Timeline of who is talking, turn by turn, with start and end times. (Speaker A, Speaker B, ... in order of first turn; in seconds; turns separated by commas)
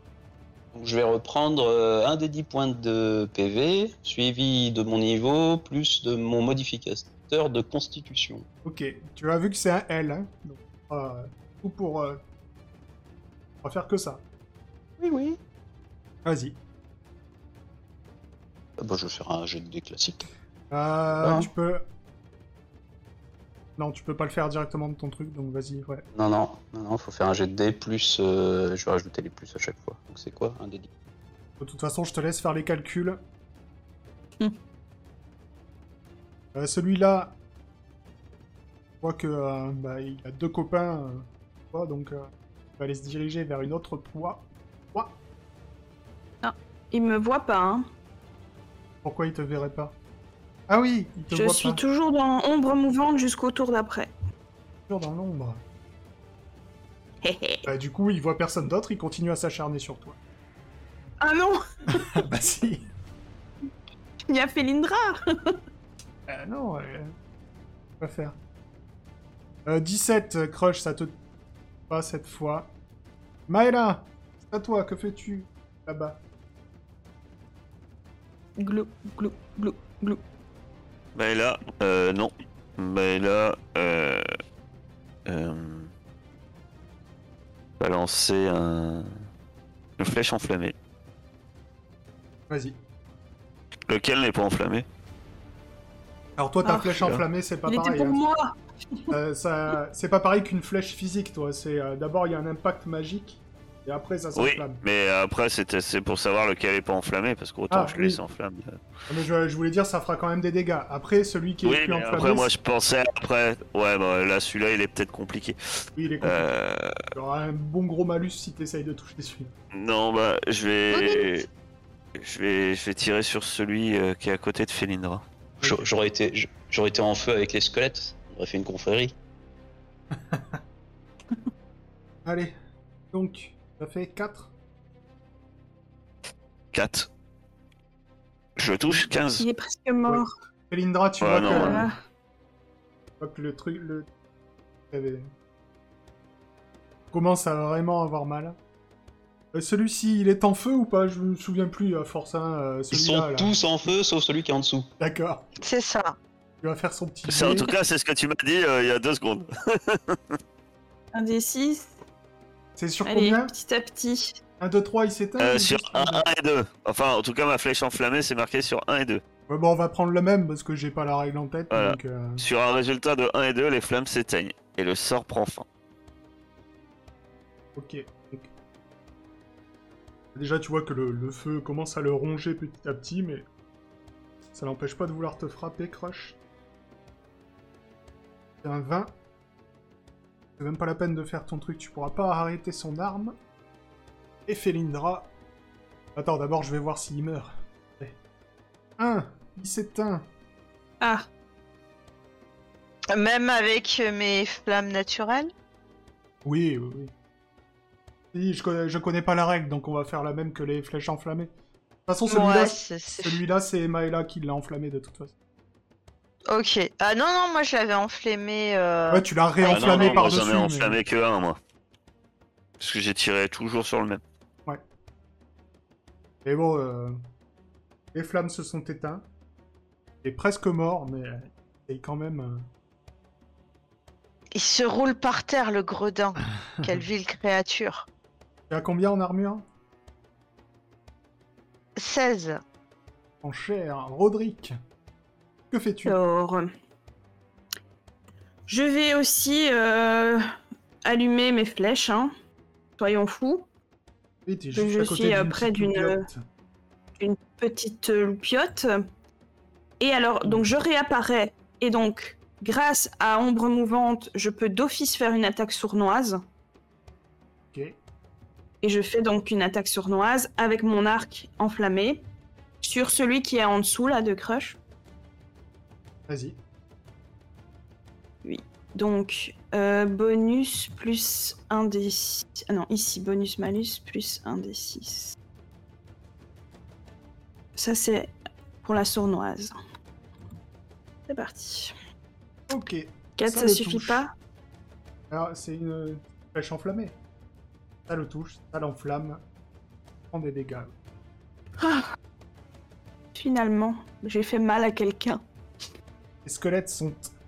Speaker A: 0.7-8.5, Speaker B: 8.7-12.2, Speaker B: 13.6-14.2, Speaker A: 15.0-15.4, Speaker B: 16.2-16.6, Speaker A: 18.8-20.3, Speaker B: 20.7-21.9, Speaker A: 21.2-21.5, Speaker B: 23.8-26.1, Speaker A: 26.1-30.9, Speaker B: 31.6-33.2, Speaker B: 36.5-37.4, Speaker B: 39.0-45.2, Speaker C: 46.4-47.9, Speaker B: 49.0-50.0, Speaker B: 50.7-51.8, Speaker C: 51.3-54.1, Speaker B: 54.9-55.6, Speaker C: 57.2-57.7, Speaker B: 57.7-60.2, Speaker C: 61.2-62.2, Speaker B: 61.9-62.9, Speaker C: 64.3-65.6, Speaker B: 66.3-67.1, Speaker B: 68.0-68.4, Speaker B: 69.7-71.2, Speaker B: 71.9-72.7, Speaker B: 73.5-76.2, Speaker C: 78.6-80.2, Speaker D: 81.2-84.4, Speaker D: 85.3-85.9, Speaker D: 87.8-89.1, Speaker D: 90.0-90.7, Speaker B: 92.5-92.8, Speaker D: 93.9-94.9, Speaker B: 96.4-98.2, Speaker C: 96.6-96.9, Speaker C: 97.7-99.1, Speaker B: 99.1-104.8, Speaker D: 104.4-108.8, Speaker B: 107.7-108.2, Speaker B: 109.1-112.5, Speaker D: 111.6-115.6, Speaker B: 116.0-116.5, Speaker D: 116.2-117.0, Speaker B: 117.1-119.5, Speaker D: 119.7-121.5, Speaker D: 122.2-125.2, Speaker A: 125.6-129.2, Speaker B: 130.1-130.6, Speaker B: 132.2-132.6, Speaker B: 133.1-134.5, Speaker D: 136.7-137.1, Speaker D: 138.6-139.4, Speaker C: 139.4-140.3, Speaker B: 140.1-141.9, Speaker D: 141.2-141.9, Speaker C: 141.5-141.9, Speaker B: 143.2-144.1, Speaker B: 144.9-145.3, Speaker B: 147.1-148.6, Speaker B: 149.5-153.5, Speaker A: 152.9-154.9, Speaker B: 155.0-155.5, Speaker E: 155.6-156.2, Speaker B: 156.6-157.7, Speaker D: 157.3-160.4, Speaker C: 161.1-161.9, Speaker B: 162.8-163.5, Speaker C: 163.1-164.4, Speaker B: 164.6-166.3, Speaker D: 165.4-169.2, Speaker B: 169.5-172.4, Speaker D: 171.7-175.7, Speaker B: 177.8-178.5, Speaker B: 180.3-183.5, Speaker B: 184.5-186.4, Speaker B: 188.6-189.1, Speaker B: 190.6-193.4, Speaker B: 194.5-195.3, Speaker B: 196.2-198.2, Speaker B: 199.0-200.3, Speaker C: 201.0-201.3, Speaker E: 203.1-205.5, Speaker B: 206.4-207.1, Speaker B: 208.3-211.5, Speaker B: 212.1-215.3, Speaker E: 212.3-213.4, Speaker E: 216.5-220.3, Speaker B: 219.1-221.0, Speaker D: 219.7-221.6, Speaker D: 222.8-224.2, Speaker B: 226.4-227.2, Speaker B: 228.1-229.2, Speaker B: 230.2-232.7, Speaker E: 234.6-238.1, Speaker B: 238.7-239.7, Speaker E: 242.0-242.6, Speaker B: 243.4-244.7, Speaker B: 245.7-246.2, Speaker C: 246.1-246.7, Speaker C: 248.7-250.4, Speaker C: 251.1-252.3, Speaker C: 253.0-253.7, Speaker B: 254.5-256.4, Speaker C: 254.7-256.3, Speaker C: 257.2-259.0, Speaker C: 260.0-266.4, Speaker B: 260.4-260.7, Speaker B: 267.7-268.0, Speaker C: 268.8-272.2, Speaker C: 272.8-274.8, Speaker B: 276.3-276.6, Speaker C: 278.4-285.4, Speaker C: 287.8-289.8, Speaker C: 291.3-291.9, Speaker B: 292.7-294.2, Speaker C: 293.4-294.3, Speaker B: 295.3-297.2, Speaker B: 298.1-299.4, Speaker B: 300.3-300.9, Speaker C: 301.8-302.1, Speaker C: 303.4-305.4, Speaker B: 306.4-307.3